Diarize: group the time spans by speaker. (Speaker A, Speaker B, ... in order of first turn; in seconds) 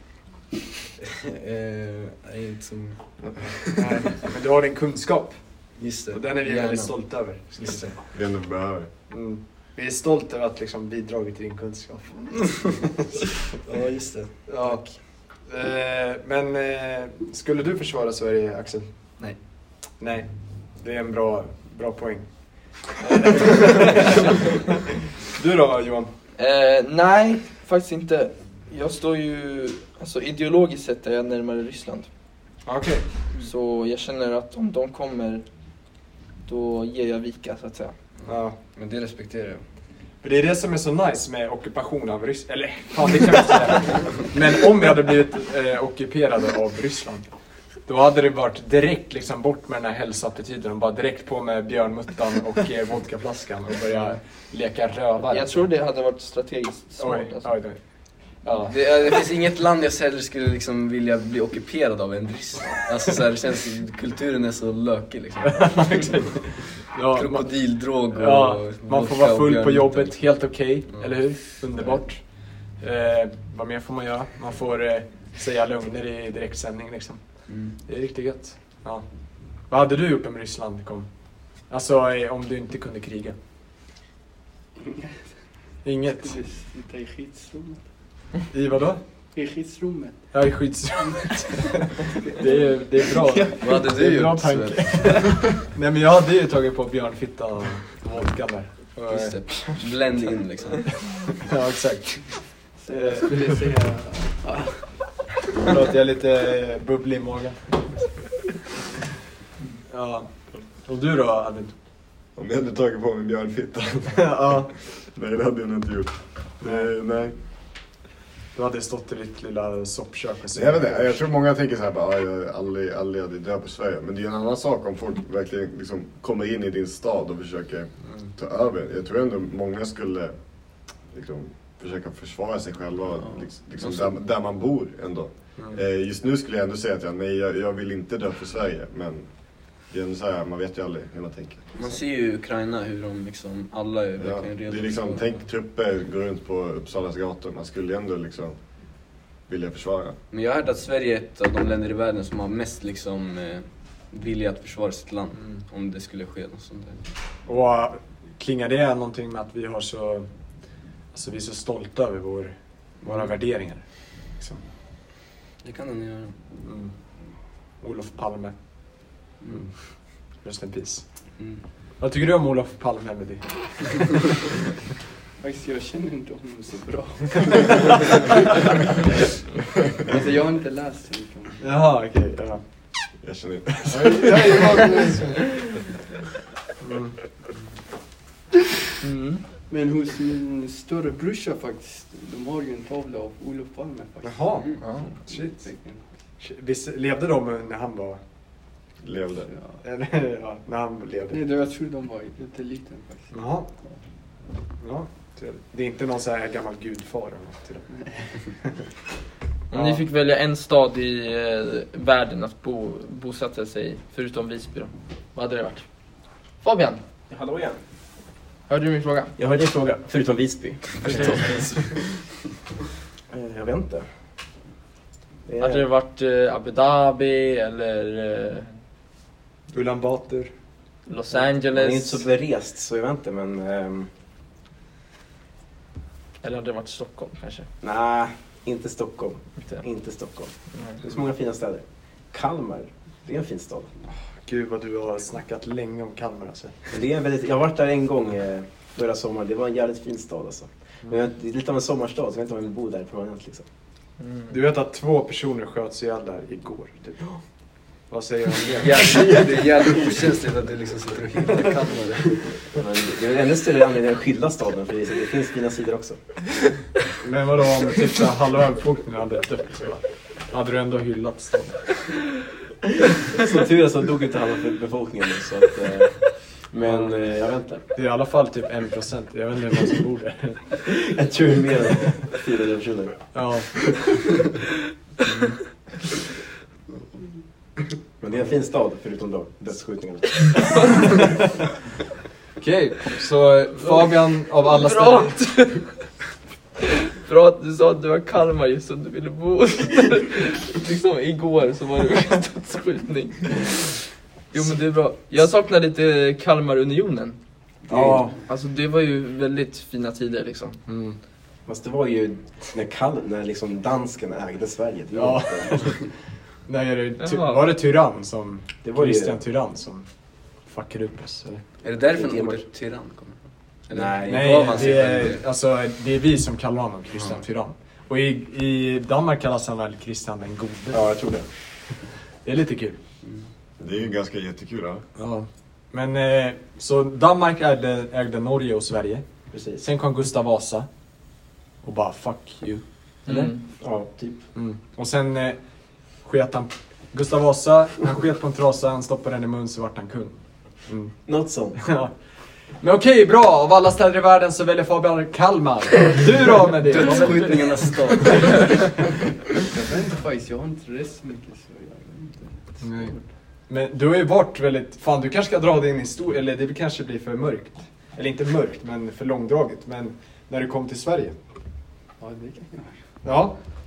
Speaker A: 1.3-3.9, 5.7-8.0, 13.6-14.9, 38.2-39.6, 58.5-72.0, 77.5-77.8, 93.6-95.4, 98.9-101.0, 133.2-134.2, 141.7-145.4, 150.3-157.1, 165.6-166.4, 169.4-169.7, 171.3-171.6, 258.8-262.7, 321.8-325.4, 333.2-333.5, 356.8-358.9
Speaker B: 3.2-3.5, 8.0-8.9, 112.3-117.4, 120.5-142.0, 144.1-150.2, 183.2-184.5, 199.0-199.5, 333.8-335.1
Speaker C: 3.8-8.0, 9.1-12.8, 14.4-24.3, 25.3-26.1, 32.6-33.2, 38.2-38.6, 40.2-47.3, 47.8-55.7, 57.0-58.8, 65.5-83.3, 85.8-86.4, 88.5-89.0, 90.3-91.7, 92.3-99.6, 101.0-103.7, 105.6-108.2, 109.9-111.7, 114.1-114.7, 116.6-116.9, 118.5-121.2, 135.6-135.8, 157.4-164.6, 166.6-171.4, 172.0-174.2, 181.6-183.1, 184.0-185.4, 186.8-187.2, 194.2-198.2, 199.8-201.4, 203.3-203.7, 204.8-208.5, 209.7-210.1, 221.0-222.0, 229.7-230.5, 244.2-246.8, 254.5-257.6, 258.1-259.3, 267.2-272.4, 276.8-277.2, 277.8-280.9, 283.3-284.3, 292.6-295.7, 307.9-308.3, 310.9-311.2, 315.1-321.6, 324.2-331.8, 332.4-333.0, 335.1-343.8, 344.5-358.8, 362.8-371.4, 373.2-373.6
Speaker D: 26.4-32.1, 33.4-35.5, 36.4-37.9, 55.3-57.7, 189.0-189.4, 194.8-195.1, 209.7-217.0, 218.7-219.3, 225.6-228.7, 231.1-232.3, 236.4-237.7, 239.6-239.8, 240.7-241.0, 254.2-254.5, 293.8-296.2, 297.2-310.8, 317.2-317.7, 343.2-343.6
Speaker E: 84.8-88.2, 89.3-91.5, 102.7-105.2, 175.4-178.1, 180.0-181.6, 183.9-185.3, 189.6-196.2, 199.4-199.8, 201.3-204.0, 207.9-208.3, 359.6-363.2, 372.2-373.2
Speaker F: 217.3-217.8, 219.3-221.9, 223.3-224.1, 225.4-225.9, 231.3-234.1, 237.8-243.9, 246.9-253.7, 262.6-266.4, 273.4-277.9, 280.9-283.8, 288.2-290.7, 307.9-308.3, 311.6-316.1, 318.8-319.4, 322.0-322.6, 323.9-325.4, 330.9-331.5, 339.5-339.8, 343.8-344.5, 351.2-351.8